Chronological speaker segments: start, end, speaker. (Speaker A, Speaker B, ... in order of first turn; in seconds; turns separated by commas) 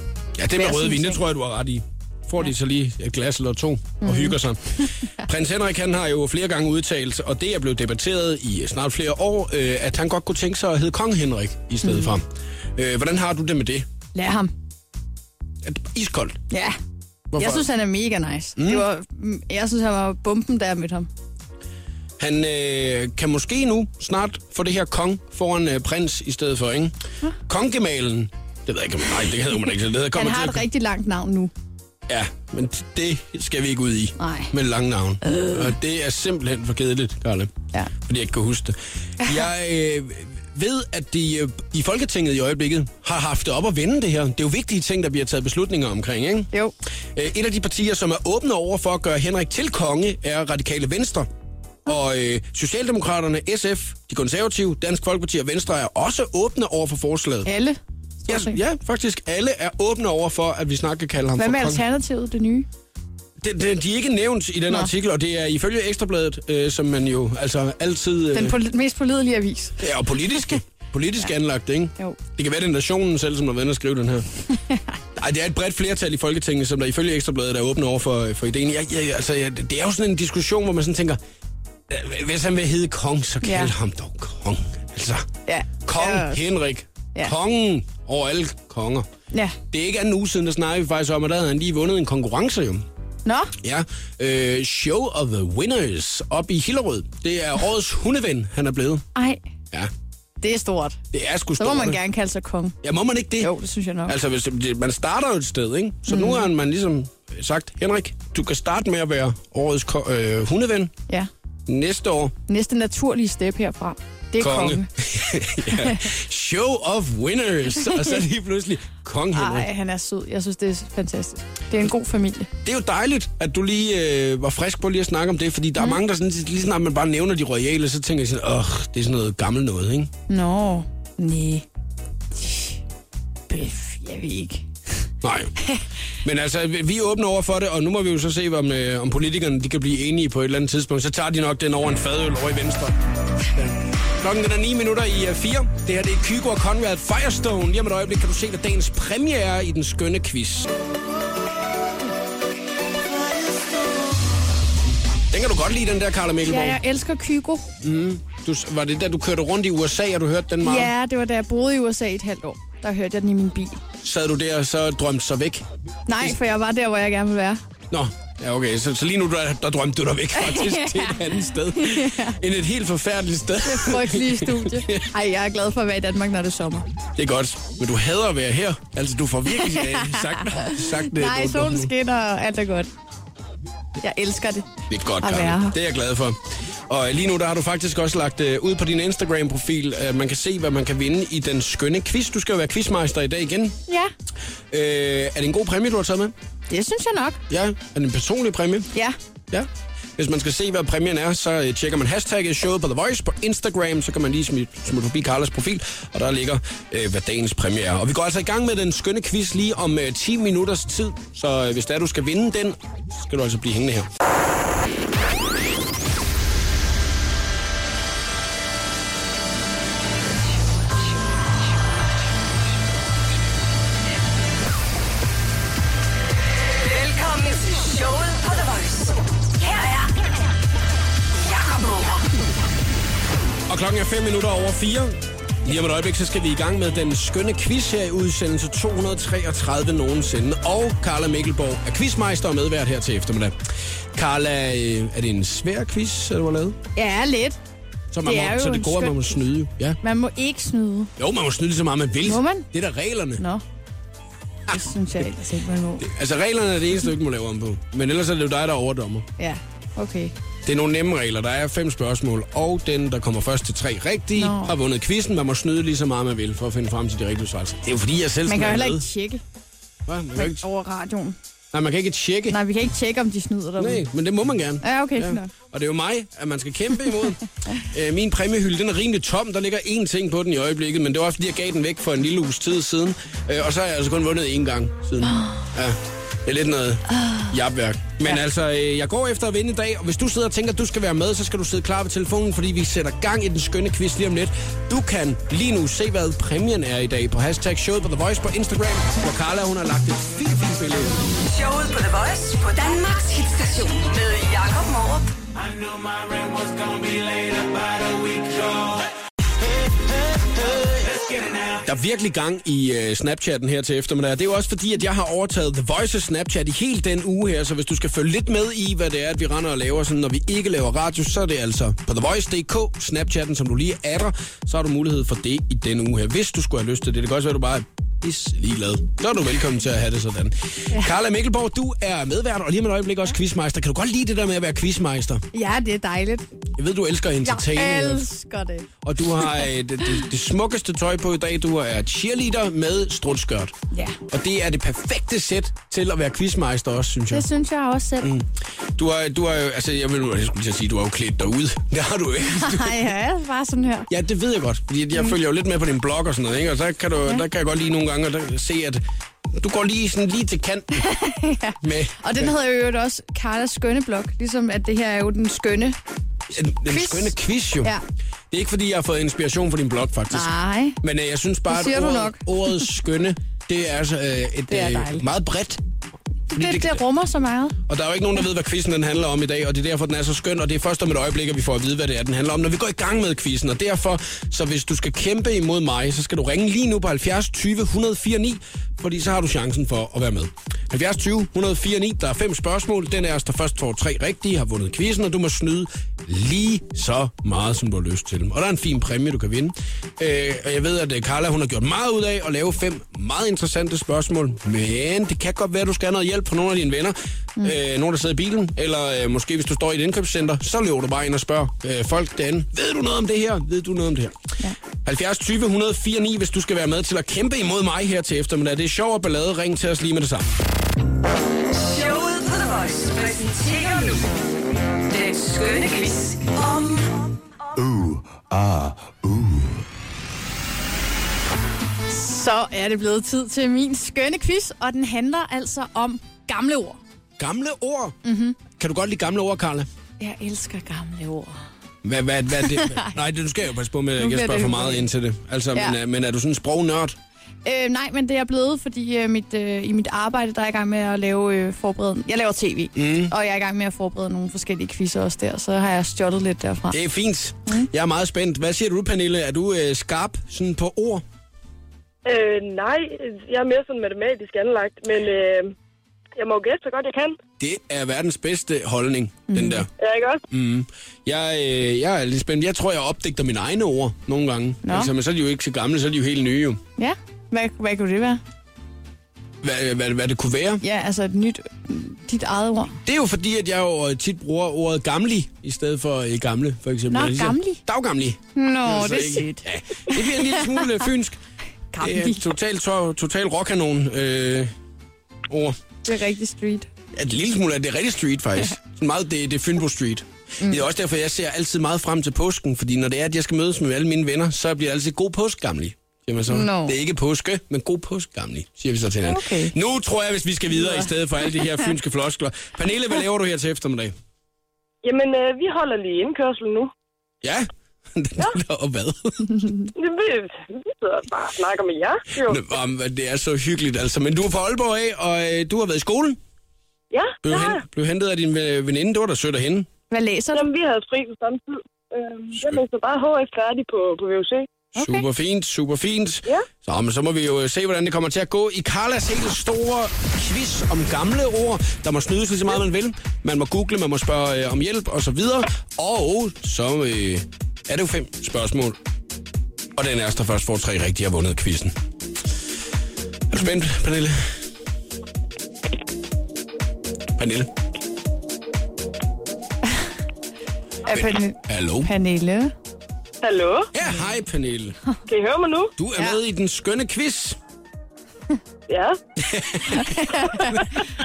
Speaker A: 0.4-12.2, Speaker B: 0.6-1.2, Speaker B: 4.0-4.4, Speaker B: 11.8-12.1, Speaker A: 12.8-13.9, Speaker B: 14.1-14.5, Speaker A: 15.6-16.4, Speaker B: 16.5-16.8, Speaker A: 17.3-17.7, Speaker B: 17.4-21.1, Speaker A: 18.6-18.9, Speaker A: 22.2-26.9, Speaker A: 27.5-30.7, Speaker B: 30.1-31.5, Speaker A: 32.1-46.5, Speaker B: 34.2-34.5, Speaker B: 35.2-35.7, Speaker A: 47.1-51.3, Speaker A: 51.9-57.5, Speaker B: 57.4-58.6, Speaker A: 58.3-61.8, Speaker B: 61.4-62.6, Speaker A: 63.4-68.6, Speaker B: 68.3-69.8, Speaker A: 69.8-74.3, Speaker A: 75.2-81.2, Speaker A: 81.9-85.3, Speaker B: 83.4-83.7, Speaker B: 85.5-86.5, Speaker A: 85.8-89.1, Speaker B: 89.3-89.6, Speaker A: 89.7-92.8, Speaker B: 93.3-93.5, Speaker A: 93.6-99.0, Speaker B: 99.1-99.4, Speaker B: 100.4-101.0, Speaker A: 101.1-102.0, Speaker B: 101.6-102.7, Speaker A: 102.8-103.5, Speaker B: 103.4-104.2, Speaker A: 104.1-110.9, Speaker B: 106.1-106.5, Speaker A: 111.7-112.3, Speaker B: 112.5-114.9, Speaker A: 114.4-119.7, Speaker B: 115.7-116.1, Speaker B: 117.8-118.2, Speaker B: 119.3-122.5, Speaker A: 122.6-130.1, Speaker B: 130.3-131.6, Speaker B: 132.4-132.8, Speaker B: 133.5-134.6, Speaker A: 135.2-135.6, Speaker A: 136.2-143.0, Speaker A: 143.5-150.7, Speaker A: 155.3-156.8, Speaker B: 156.4-157.7, Speaker A: 157.8-160.9, Speaker B: 160.6-163.8, Speaker A: 164.0-165.6, Speaker B: 166.1-167.6, Speaker A: 167.9-175.1, Speaker B: 170.4-172.4, Speaker B: 173.6-176.9, Speaker A: 177.2-181.9, Speaker B: 179.6-182.9, Speaker B: 184.0-184.7, Speaker A: 184.9-186.4, Speaker B: 185.2-185.8, Speaker A: 186.9-193.8, Speaker B: 193.9-194.1, Speaker A: 194.7-196.3, Speaker B: 196.7-197.4, Speaker A: 197.5-198.9, Speaker A: 199.5-214.1, Speaker C: 226.7-230.1, Speaker C: 231.3-232.3, Speaker A: 233.7-243.6, Speaker A: 244.1-246.8, Speaker B: 246.9-247.6, Speaker A: 248.1-250.0, Speaker B: 248.2-249.3, Speaker B: 250.0-251.1, Speaker A: 251.2-253.4, Speaker B: 252.2-252.7, Speaker B: 253.4-253.6, Speaker B: 254.7-256.1, Speaker A: 256.0-259.3, Speaker B: 259.4-260.3, Speaker A: 260.6-269.1, Speaker B: 264.4-264.7, Speaker B: 268.4-269.4, Speaker A: 270.1-270.6, Speaker B: 270.4-271.4, Speaker A: 271.7-272.6, Speaker B: 272.5-274.0, Speaker A: 273.8-301.4, Speaker B: 274.8-275.5, Speaker B: 285.2-285.6, Speaker B: 287.1-287.5, Speaker C: 301.4-305.3, Speaker D: 306.1-308.0, Speaker A: 311.7-335.4, Speaker B: 335.5-336.5, Speaker A: 336.8-338.3, Speaker B: 337.4-338.9, Speaker A: 339.0-343.7, Speaker B: 343.9-344.2, Speaker A: 344.3-347.5, Speaker B: 347.3-348.3, Speaker A: 348.2-353.1, Speaker B: 352.5-354.1, Speaker A: 354.1-361.1, Speaker B: 360.9-366.0, Speaker A: 361.8-362.5, Speaker A: 366.5-367.9, Speaker B: 366.9-368.0, Speaker A: 368.5-375.8, Speaker B: 370.3-371.0, Speaker B: 371.7-372.4, Speaker B: 374.7-375.2, Speaker B: 376.5-377.8, Speaker A: 376.5-377.0, Speaker A: 377.9-414.5, Speaker A: 415.0-420.6, Speaker C: 421.7-424.3, Speaker C: 425.0-427.2, Speaker D: 427.8-429.7, Speaker B: 432.1-437.0, Speaker A: 437.4-438.2, Speaker B: 438.2-438.6, Speaker A: 438.7-439.9, Speaker B: 440.2-441.6, Speaker A: 442.0-447.1, Speaker B: 442.7-443.1, Speaker B: 444.2-445.1, Speaker B: 447.6-457.0, Speaker A: 452.9-453.4, Speaker A: 456.9-461.2, Speaker E: 462.2-465.7, Speaker E: 466.4-467.4, Speaker A: 467.6-469.9, Speaker B: 469.5-469.9, Speaker E: 470.0-470.4, Speaker A: 470.5-476.8, Speaker B: 474.8-475.1, Speaker B: 477.0-478.4, Speaker A: 479.6-480.8, Speaker B: 480.8-483.0, Speaker A: 483.1-491.4, Speaker B: 487.1-487.8, Speaker B: 488.6-490.9, Speaker B: 491.9-492.4, Speaker A: 492.0-494.7, Speaker A: 495.5-495.8, Speaker B: 496.0-496.9, Speaker A: 497.1-514.1, Speaker B: 506.5-506.9, Speaker B: 509.3-509.7, Speaker E: 515.0-516.9, Speaker A: 517.4-519.6, Speaker E: 519.9-522.6, Speaker A: 522.4-526.4, Speaker E: 527.1-527.8, Speaker A: 527.4-529.9, Speaker B: 530.1-530.7, Speaker E: 530.5-534.7, Speaker A: 535.0-549.0, Speaker B: 535.0-535.2, Speaker A: 550.0-551.9, Speaker A: 553.5-554.5, Speaker A: 557.4-557.7, Speaker B: 561.1-562.7, Speaker A: 561.1-562.1, Speaker E: 563.4-563.9, Speaker A: 563.9-565.0, Speaker E: 565.3-565.9, Speaker A: 566.0-567.6, Speaker E: 568.9-569.2, Speaker A: 569.4-571.0, Speaker B: 570.1-570.7